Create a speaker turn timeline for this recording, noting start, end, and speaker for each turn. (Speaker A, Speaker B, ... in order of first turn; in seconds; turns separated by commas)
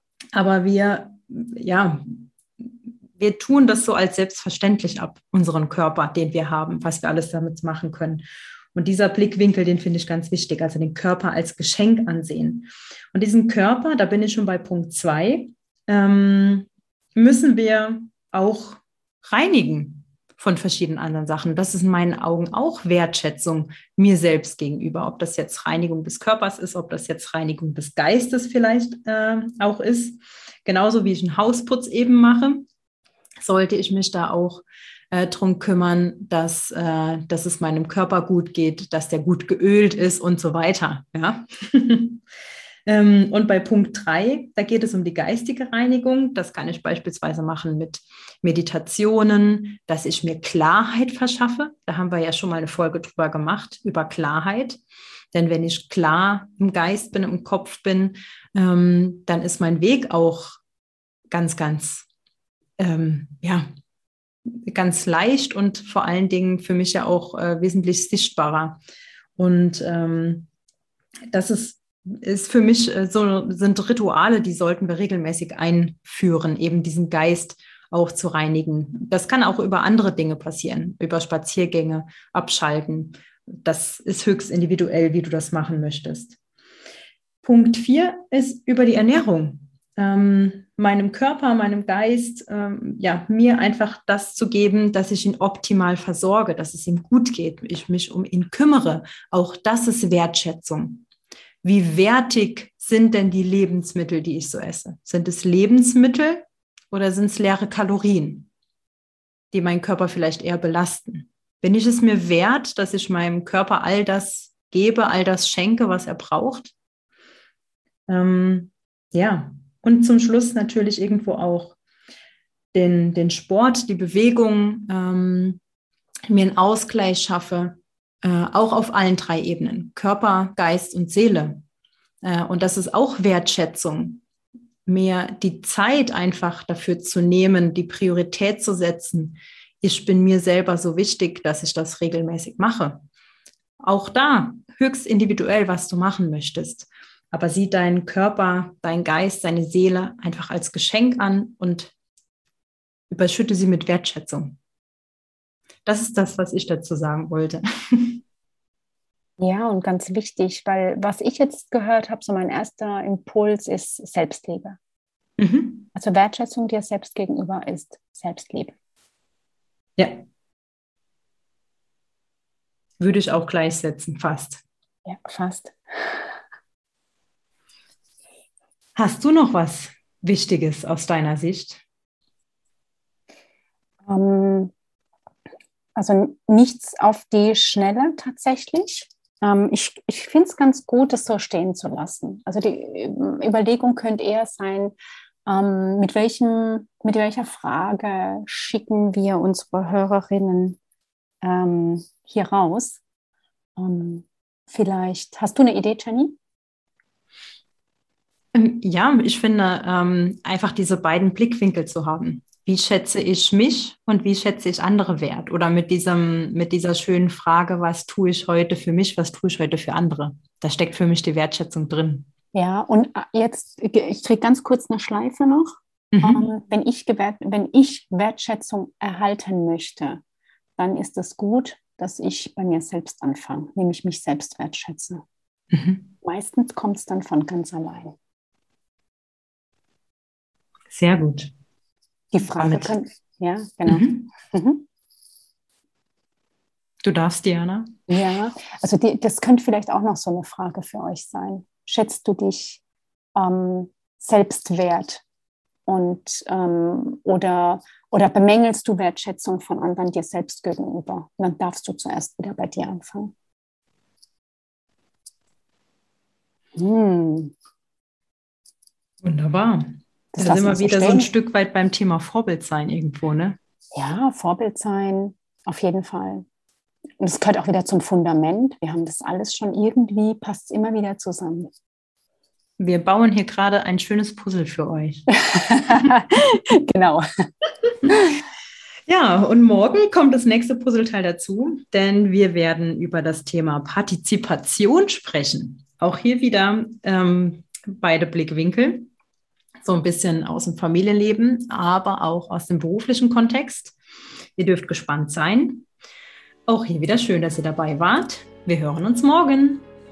Speaker A: 0.3-8.2, Speaker A: 8.7-32.7, Speaker A: 33.4-42.2, Speaker A: 42.9-54.8, Speaker A: 55.3-60.6, Speaker A: 61.3-62.1, Speaker A: 62.8-63.6, Speaker A: 64.5-68.8, Speaker A: 69.4-70.5, Speaker A: 71.3-86.4, Speaker A: 87.4-101.0, Speaker A: 101.6-108.5, Speaker A: 109.5-116.7, Speaker A: 118.1-121.8, Speaker A: 122.7-125.6, Speaker A: 126.3-131.6, Speaker A: 132.2-134.2, Speaker A: 134.8-143.0, Speaker A: 143.8-151.9, Speaker A: 153.1-154.6, Speaker A: 155.8-158.2, Speaker B: 159.4-164.8, Speaker A: 165.4-165.8, Speaker B: 165.9-168.7, Speaker A: 173.0-174.6, Speaker B: 175.1-176.3, Speaker A: 178.9-181.8, Speaker B: 184.1-184.7, Speaker B: 185.9-194.9, Speaker B: 195.4-200.8, Speaker B: 201.4-203.0, Speaker B: 203.8-206.3, Speaker A: 208.5-222.3, Speaker B: 222.5-230.2, Speaker A: 226.1-226.4, Speaker B: 230.8-235.2, Speaker A: 235.7-236.1, Speaker B: 236.2-238.1, Speaker A: 240.9-241.5, Speaker B: 242.3-244.8, Speaker A: 242.5-242.9, Speaker A: 243.8-244.2, Speaker A: 247.0-247.9, Speaker B: 248.1-252.8, Speaker B: 253.3-255.2, Speaker B: 255.9-263.3, Speaker B: 266.8-267.5, Speaker A: 269.2-269.8, Speaker B: 270.3-271.3, Speaker A: 270.4-273.6, Speaker B: 273.9-276.4, Speaker B: 277.2-281.7, Speaker A: 282.8-285.2, Speaker B: 285.4-287.2, Speaker A: 289.1-299.1, Speaker A: 299.8-303.9, Speaker A: 304.6-305.9, Speaker A: 306.7-309.9